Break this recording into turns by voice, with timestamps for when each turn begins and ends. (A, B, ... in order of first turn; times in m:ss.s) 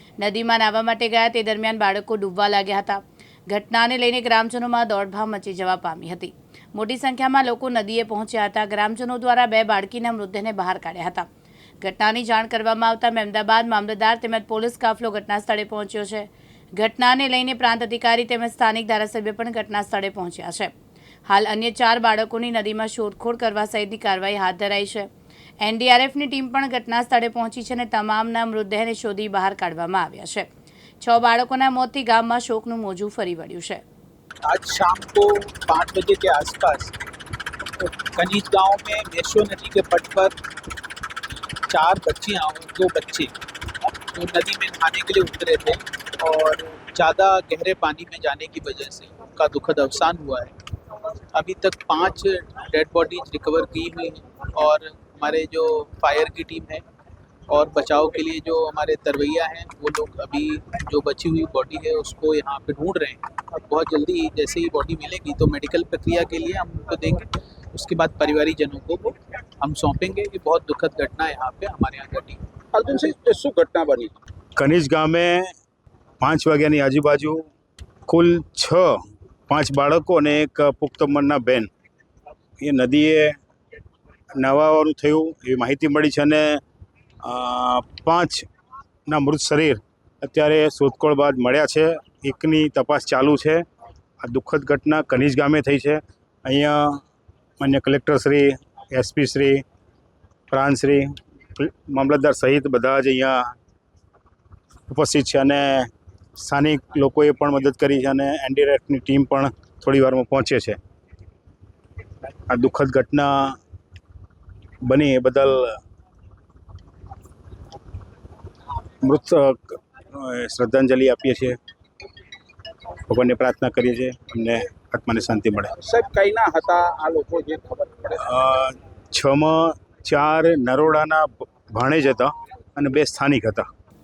0:00.2-0:11.3 A
0:11.8-0:20.7 A
0:21.3-0:25.1 A
0:25.6-0:30.5 A
0:31.0-0:33.8 A
0:34.4-0:36.9 B
0:37.8-0:40.4 B
0:41.7-0:43.3 B
0:44.1-0:56.8 B
0:57.5-1:12.4 B
1:12.7-1:14.1 C
1:14.6-1:15.5 D
1:16.2-1:17.4 D
1:18.1-1:21.7 D
1:22.6-1:23.4 D
1:24.4-1:26.6 D
1:27.2-1:28.4 D
1:29.1-1:33.6 D
1:34.2-1:37.0 D
1:37.6-1:39.6 D
1:40.5-1:43.5 D
1:44.9-1:50.8 D
1:52.5-1:53.6 D
1:54.8-1:55.8 D
1:59.0-2:01.6 D
2:03.1-2:05.7 D
2:05.8-2:08.1 C
2:08.2-2:13.6 D